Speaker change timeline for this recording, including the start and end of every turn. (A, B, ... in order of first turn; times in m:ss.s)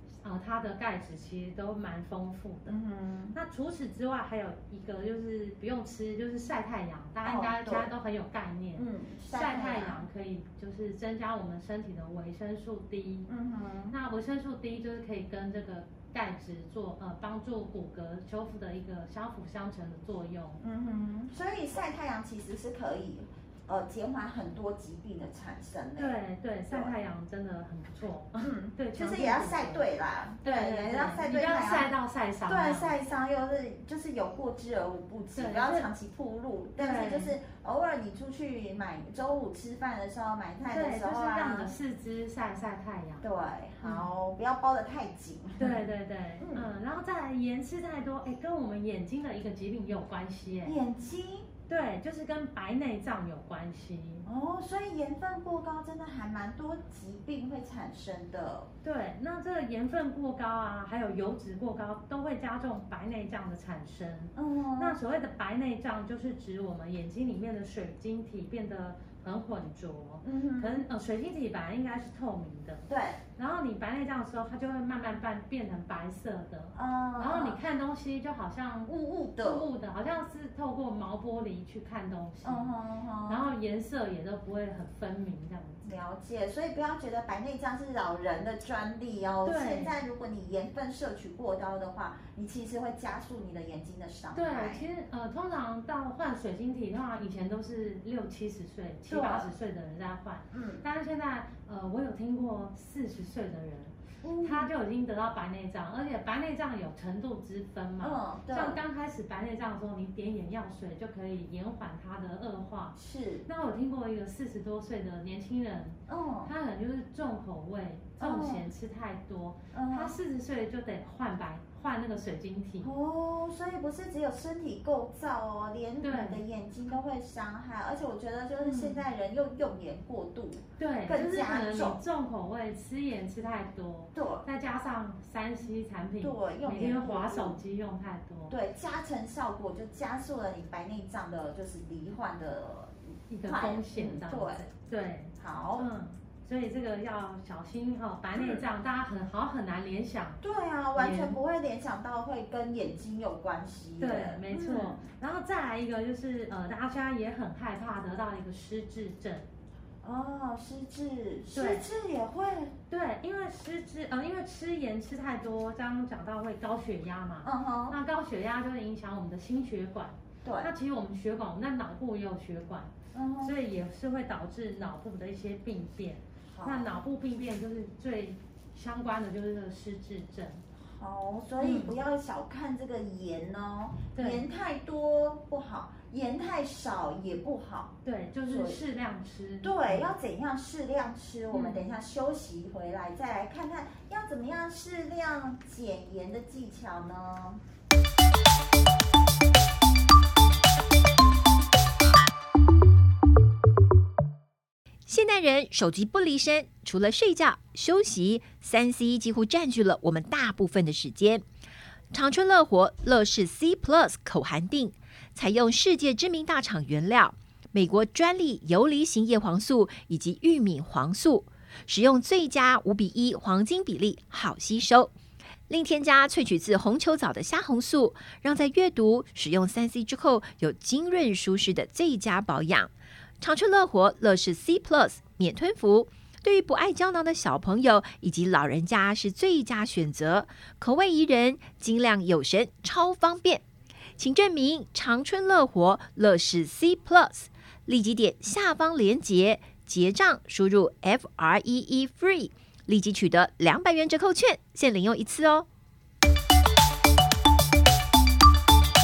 0:00.2-0:02.8 A
0:02.7-0:03.4 B
0:03.3-0:13.3 A
0:07.2-0:07.9 B
0:08.8-0:10.0 B
0:13.3-0:14.0 B
0:13.9-0:20.6 A
0:20.6-0:26.2 B
0:26.0-0:29.9 A
0:28.4-0:31.9 B
0:30.4-0:32.9 A
0:32.5-0:41.7 B
0:35.4-0:35.9 A
0:36.8-0:37.4 A
0:40.7-0:43.2 A
0:43.2-0:45.8 B
0:43.8-0:44.1 A
0:45.6-0:50.8 A
0:46.4-0:46.7 B
0:50.6-0:51.5 B
0:51.7-0:54.2 A
0:54.2-0:58.7 B
0:58.8-1:22.7 A
1:04.4-1:05.0 B
1:10.2-1:10.9 B
1:12.9-1:13.2 B
1:16.7-1:17.6 B
1:18.9-1:19.7 B
1:22.4-1:23.4 B
1:23.2-1:25.9 A
1:25.8-1:34.9 B
1:29.4-1:30.0 A
1:34.3-2:02.9 A
1:39.1-1:39.5 B
1:40.5-1:40.8 B
1:44.2-1:44.7 B
1:48.0-1:48.8 B
1:53.0-1:53.5 B
1:56.1-1:56.5 B
1:58.2-1:58.6 B
1:59.7-2:00.2 B
2:02.8-2:12.0 B
2:06.0-2:06.4 A
2:08.6-2:09.0 A
2:10.8-2:18.5 A
2:14.2-2:14.4 B
2:16.2-2:17.6 B
2:18.5-2:24.6 B
2:23.3-2:30.4 A
2:25.4-2:25.9 B
2:28.4-2:28.6 B
2:30.4-2:35.0 B
2:31.0-2:31.4 A
2:34.0-2:39.5 A
2:40.0-2:42.8 B
2:41.5-2:41.8 A
2:42.9-3:00.6 A
2:47.4-2:48.0 B
2:50.4-2:50.7 B
2:53.1-2:53.6 B
2:56.5-2:57.0 B
3:00.8-3:08.0 B
3:01.6-3:01.9 A
3:04.2-3:04.4 A
3:08.0-3:10.1 A
3:08.5-3:08.8 B
3:09.6-3:17.6 B
3:11.5-3:11.9 A
3:25.1-3:31.4 C
3:32.1-3:45.1 C
3:45.7-4:03.6 C
4:04.2-4:15.7 C